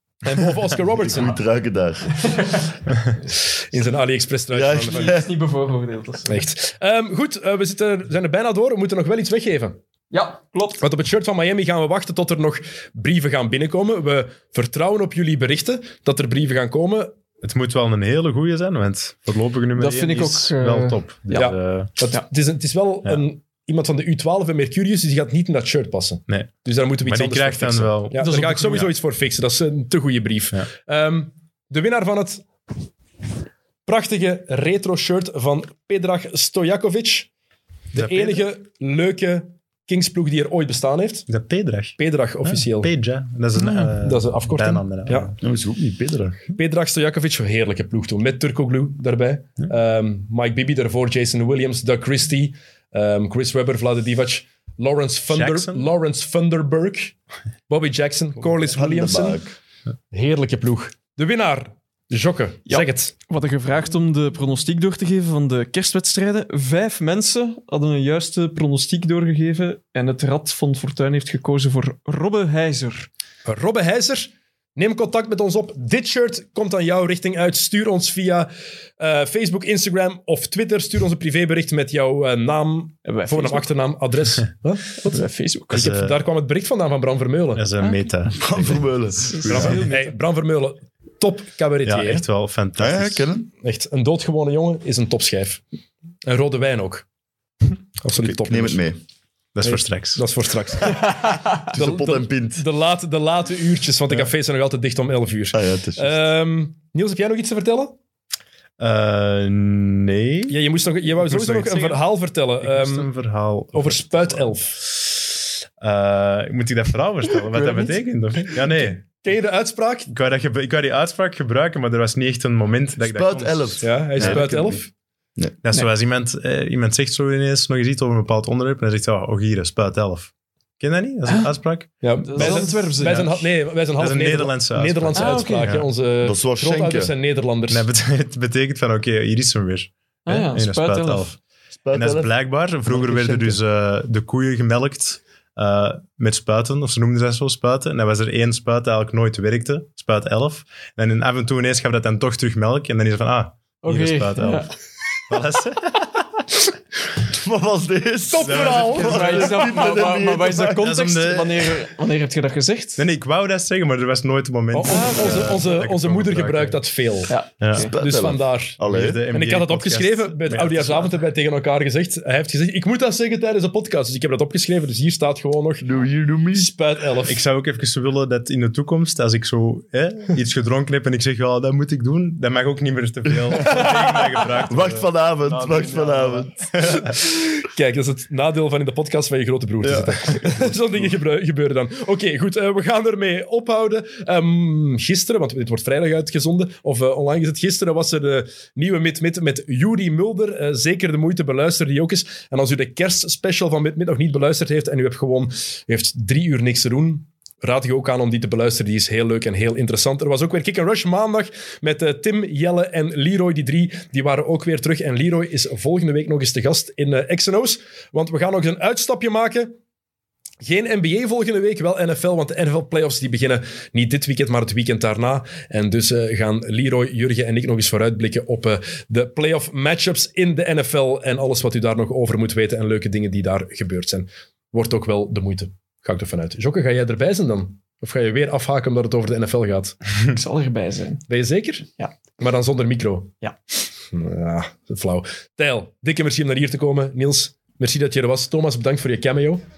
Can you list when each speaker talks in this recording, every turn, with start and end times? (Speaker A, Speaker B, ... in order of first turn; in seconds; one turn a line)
Speaker A: 0.2-1.4
Speaker B: 0.9-2.4
Speaker C: 2.2-2.5
Speaker A: 3.6-5.2
Speaker B: 4.5-5.3
Speaker C: 4.9-6.4
Speaker A: 6.3-9.8
Speaker C: 10.1-10.8
Speaker A: 10.8-17.1
Speaker D: 17.4-21.9
Speaker C: 19.8-21.3
Speaker A: 21.3-32.5
Speaker D: 26.3-28.8
Speaker C: 28.2-28.9
Speaker A: 33.9-37.3
Speaker A: 37.9-41.3
Speaker D: 37.9-38.5
Speaker D: 41.3-45.4
Speaker A: 42.0-42.9
Speaker A: 43.7-45.3
Speaker B: 45.4-46.6
Speaker A: 46.5-57.1
Speaker D: 55.3-55.9
Speaker A: 57.7-59.4
Speaker B: 58.6-59.6
Speaker A: 60.1-63.1
Speaker C: 62.7-73.1
Speaker A: 73.5-87.6
Speaker C: 83.0-83.7
Speaker C: 85.0-85.9
Speaker D: 85.7-86.2
Speaker D: 87.5-89.8
Speaker B: 88.3-89.8
Speaker C: 89.3-90.1
Speaker A: 89.5-92.2
Speaker D: 91.8-93.3
Speaker B: 92.8-93.5
Speaker A: 93.6-95.6
Speaker A: 96.2-97.0
Speaker A: 98.0-98.8
Speaker B: 98.2-99.0
Speaker D: 99.5-100.2
Speaker A: 99.6-108.0
Speaker B: 101.6-102.6
Speaker B: 105.5-106.2
Speaker D: 108.8-112.0
Speaker A: 110.5-113.1
Speaker D: 112.6-114.5
Speaker A: 113.7-114.9
Speaker D: 115.8-119.0
Speaker A: 118.7-120.1
Speaker D: 120.1-124.5
Speaker B: 123.0-124.8
Speaker A: 123.8-124.9
Speaker D: 125.6-132.8
Speaker A: 132.0-137.9
Speaker C: 132.2-133.5
Speaker D: 134.0-135.9
Speaker C: 135.2-135.7
Speaker B: 136.2-137.1
Speaker D: 137.7-141.3
Speaker C: 140.2-141.3
Speaker B: 141.8-142.3
Speaker D: 141.9-154.7
Speaker B: 142.9-143.6
Speaker C: 153.8-154.7
Speaker D: 155.3-156.1
Speaker B: 157.2-160.9
Speaker A: 158.3-159.6
Speaker D: 158.4-159.4
Speaker C: 158.9-163.0
Speaker D: 160.7-161.9
Speaker D: 162.9-166.8
Speaker A: 164.7-167.3
Speaker C: 164.9-165.5
Speaker C: 167.3-167.9
Speaker D: 167.6-167.9
Speaker B: 167.9-169.2
Speaker A: 167.9-175.9
Speaker D: 168.8-171.2
Speaker B: 175.8-176.7
Speaker A: 176.5-177.4
Speaker D: 177.3-187.1
Speaker B: 184.7-186.5
Speaker A: 186.9-219.7
Speaker D: 189.8-190.6
Speaker A: 220.6-240.0
Speaker C: 240.3-241.2
Speaker A: 241.3-241.9
Speaker A: 242.4-243.3
Speaker A: 244.1-249.6